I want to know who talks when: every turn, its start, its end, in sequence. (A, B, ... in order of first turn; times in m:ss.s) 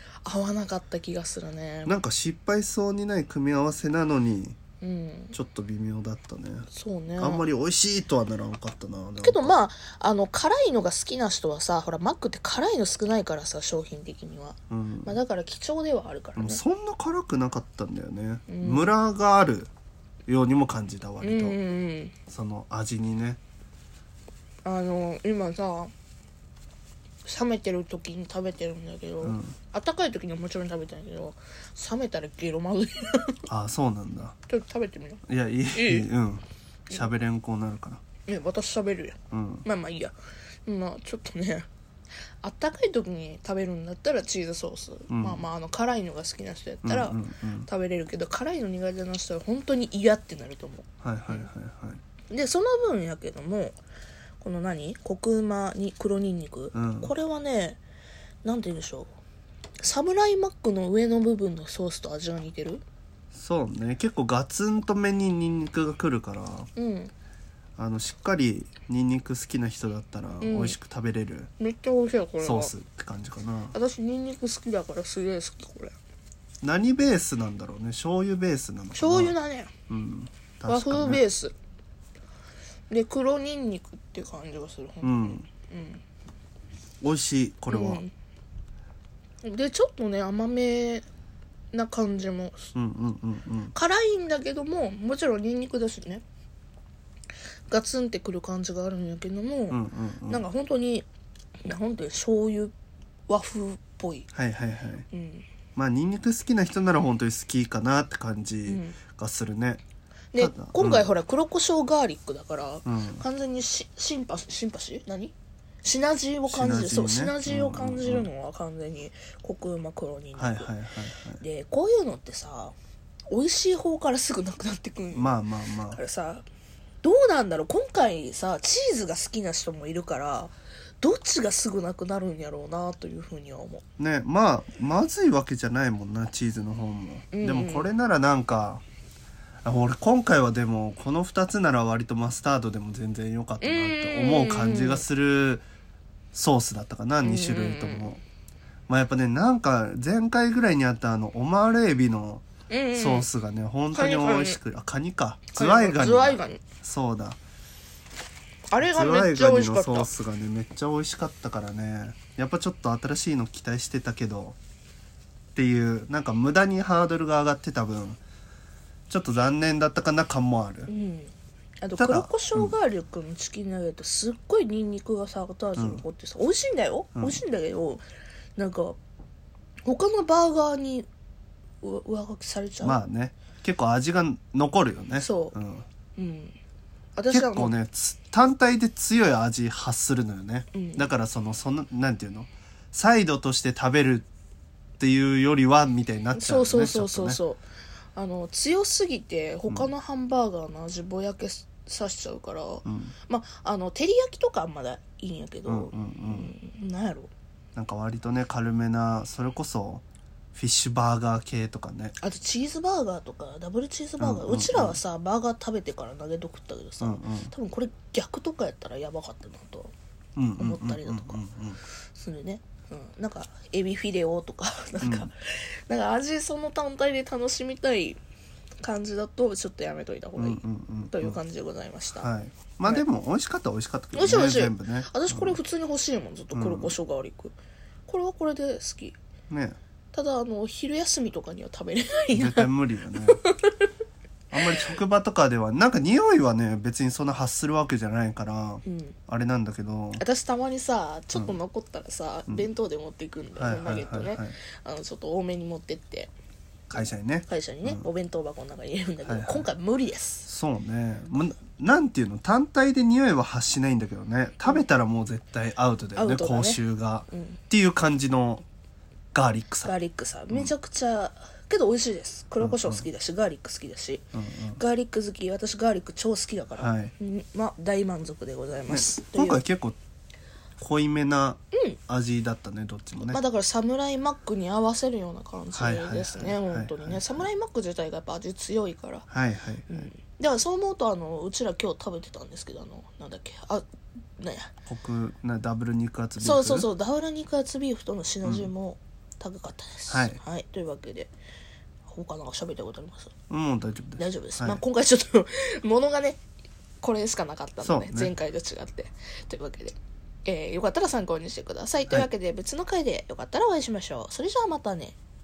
0:00.2-0:02.0 A
0:01.9-0:04.6 B
0:04.8-0:05.3 A
0:05.3-0:09.5 B
0:06.7-0:07.4 A
0:09.2-0:16.6 A
0:14.7-0:15.2 B
0:16.4-0:19.7 B
0:18.5-0:18.9 A
0:20.3-0:21.6 B
0:21.2-0:22.2 A
0:22.3-0:23.4 B
0:24.6-0:25.9 A
0:27.2-0:33.5 A
0:29.2-0:29.6 B
0:33.5-0:34.4 B
0:34.5-0:36.1 A
0:35.3-0:38.0 B
0:38.3-0:40.2 A
0:39.3-0:39.7 B
0:40.7-0:41.7 A
0:42.4-0:51.5 A
0:45.1-0:45.4 B
0:46.8-0:47.7 B
0:51.0-0:52.0 B
0:52.3-0:53.8 A
0:54.4-0:57.8 A
0:56.7-0:57.1 B
0:58.4-0:59.1 A
0:59.8-1:02.8 A
1:03.3-1:06.7 B
1:06.8-1:07.1 A
1:07.8-1:11.5 B
1:10.4-1:10.8 A
1:11.6-1:12.7 A
1:12.4-1:13.7 B
1:13.7-1:16.0 A
1:16.6-1:19.4 B
1:19.0-1:19.7 A
1:19.9-1:21.2 B
1:20.7-1:21.5 A
1:22.9-1:26.0 A
1:25.0-1:25.5 B
1:27.0-1:28.0 B
1:27.7-1:28.1 A
1:29.4-1:31.1 A
1:31.7-1:32.7 A
1:32.8-1:33.7 B
1:33.7-1:36.2 A
1:37.7-1:41.1 A
1:39.7-1:40.4 B
1:41.6-1:42.7 A
1:43.3-1:44.3 A
1:44.3-1:45.1 B
1:45.1-1:45.5 A
1:45.8-1:49.8 B
1:48.7-1:49.0 A
1:50.3-2:00.7 A
1:50.4-1:51.1 B
1:52.8-1:53.2 B
1:56.5-1:58.3 B
2:00.4-2:01.4 B
2:01.4-2:02.8 A
2:03.3-2:06.4 A
2:05.1-2:06.0 B
2:07.0-2:13.8 A
2:14.0-2:18.8 B
2:17.3-2:17.9 A
2:19.6-2:25.7 B
2:23.6-2:25.0 A
2:26.3-2:28.2 B
2:27.2-2:28.1 A
2:28.9-2:37.4 B
2:32.7-2:33.3 A
2:33.9-2:34.6 A
2:35.5-2:36.6 A
2:38.7-2:40.1 A
2:38.8-2:44.6 B
2:45.6-2:48.2 B
2:49.1-2:50.9 B
2:50.9-2:58.0 A
2:52.0-2:52.8 B
2:55.8-2:56.0 B
2:57.2-2:57.4 B
2:58.6-2:59.0 A
2:59.8-3:01.1 A
3:01.8-3:03.0 A
3:02.8-3:05.9 B
3:05.2-3:05.6 A
3:06.2-3:06.6 A
3:07.2-3:07.8 A
3:07.3-3:14.3 B
3:10.7-3:11.1 A
3:15.0-3:17.4 B
3:16.3-3:17.6 A
3:18.2-3:27.3 A
3:22.8-3:23.2 B
3:25.7-3:26.5 B
3:27.8-3:30.0 B
3:30.6-3:32.2 B
3:32.2-3:39.9 A
3:34.2-3:35.0 B
3:37.0-3:37.5 B
3:40.4-3:41.8 B
3:40.6-3:41.4 A
3:42.1-3:48.2 A
3:45.0-3:45.3 B
3:48.8-3:52.3 A
3:50.4-3:51.4 B
3:52.2-3:55.6 B
3:54.1-3:57.5 A
3:56.5-3:57.0 B
3:58.1-3:59.2 A
3:59.5-3:59.8 B
4:00.1-4:03.9 A
4:02.3-4:03.4 B
4:04.5-4:10.2 B
4:08.9-4:09.2 A
4:10.2-4:16.3 A
4:11.3-4:11.6 B
4:13.6-4:14.6 B
4:16.9-4:18.0 B
4:16.9-4:20.4 A
4:19.2-4:19.7 B
4:20.4-4:28.6 B
4:26.2-4:27.6 A
4:29.3-4:30.0 B
4:29.9-4:39.6 A
4:32.6-4:33.1 B
4:34.3-4:34.8 B
4:36.8-4:37.1 B
4:38.9-4:40.0 B
4:40.8-4:43.4 B
4:43.3-4:49.3 A
4:45.7-4:47.5 B
4:49.3-4:50.1 B
4:49.9-4:53.8 A
4:54.4-4:54.7 A
4:54.9-4:56.9 B
4:56.4-5:01.3 A
4:58.4-4:58.7 B
5:00.1-5:00.4 B
5:02.1-5:03.3 A
5:03.5-5:04.8 B
5:04.2-5:06.4 A
5:07.0-5:15.2 A
5:07.8-5:08.3 B